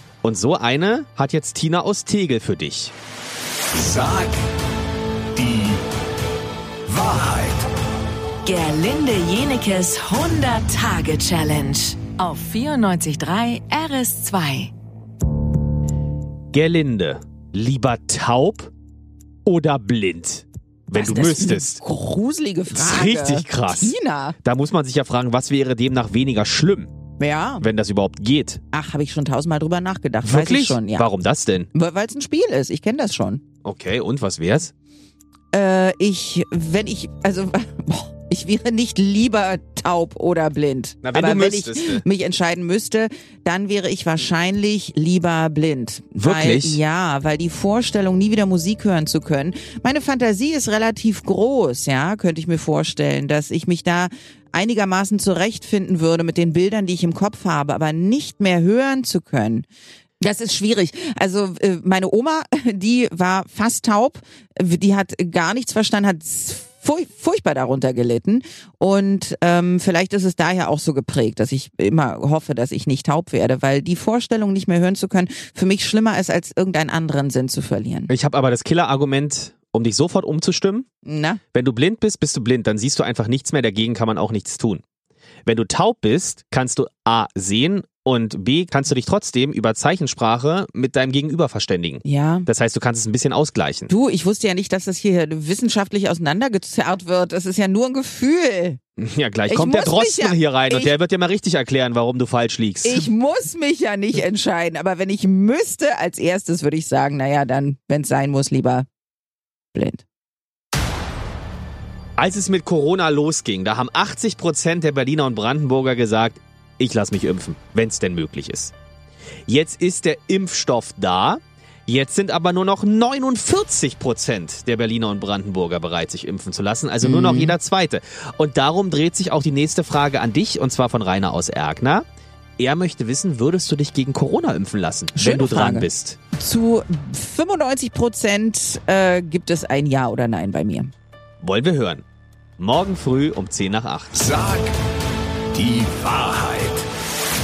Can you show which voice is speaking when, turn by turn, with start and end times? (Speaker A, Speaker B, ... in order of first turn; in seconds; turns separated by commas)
Speaker A: 0.2-2.9, Speaker B: 3.8-4.4, Speaker B: 5.4-5.7, Speaker B: 6.9-7.6, Speaker C: 8.4-14.7, Speaker A: 16.5-18.7, Speaker A: 19.4-21.8, Speaker D: 20.9-24.4, Speaker A: 22.7-26.9, Speaker D: 27.2-27.6, Speaker A: 27.6-28.6, Speaker D: 28.7-31.1, Speaker A: 30.2-31.7, Speaker D: 31.7-33.4, Speaker A: 33.6-34.7, Speaker D: 35.5-59.7, Speaker A: 41.0-42.0, Speaker A: 46.2-46.8, Speaker D: 60.2-78.1, Speaker A: 78.1-80.9, Speaker D: 81.0-81.4, Speaker A: 81.5-84.8, Speaker A: 85.5-93.9, Speaker D: 92.0-92.5, Speaker D: 93.9-98.8, Speaker A: 99.0-103.1, Speaker D: 99.5-100.9, Speaker D: 102.8-108.9, Speaker D: 109.7-110.0, Speaker A: 112.2-118.7, Speaker A: 119.5-132.0, Speaker D: 127.0-127.6, Speaker A: 132.6-136.2, Speaker D: 135.2-140.9, Speaker A: 141.4-142.0, Speaker A: 142.6-144.3, Speaker B: 145.6-146.8